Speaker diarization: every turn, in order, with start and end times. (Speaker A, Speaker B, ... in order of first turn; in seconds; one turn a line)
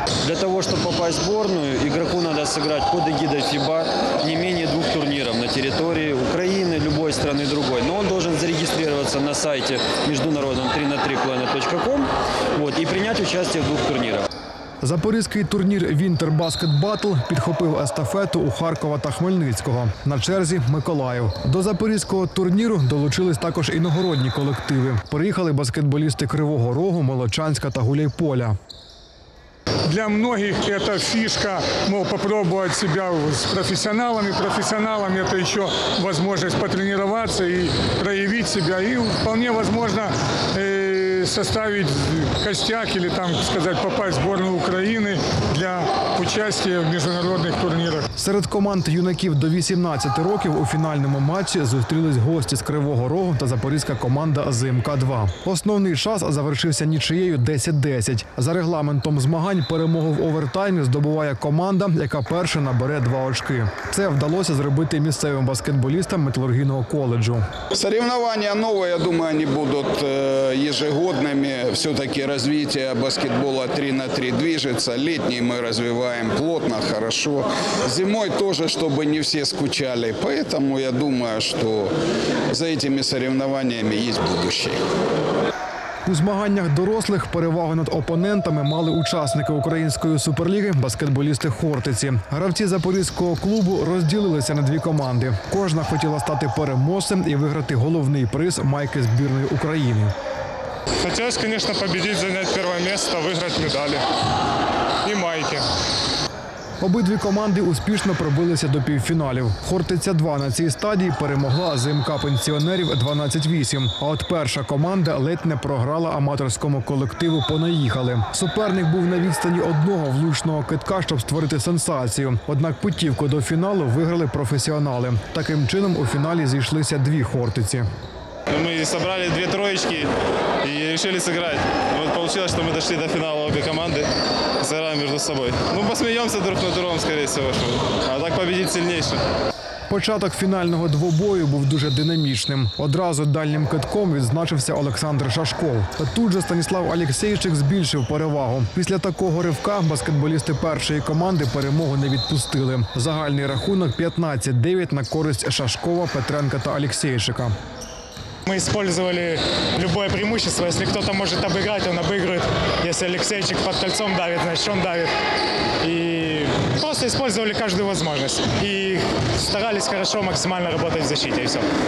Speaker A: 0.2-14.3
Speaker B: 14.8-28.6
Speaker C: 29.9-48.0
Speaker B: 48.2-67.5
Speaker D: 67.7-81.9
Speaker D: 82.5-84.8
Speaker B: 86.0-100.1
Speaker E: 101.0-104.0
Speaker E: 105.1-105.6
Speaker B: 106.8-127.9
Speaker F: 128.5-130.1
Speaker F: 130.6-134.1
Speaker F: 134.6-139.2
Speaker B: 139.9-157.5
Speaker E: 158.5-165.1
Speaker E: 165.8-171.7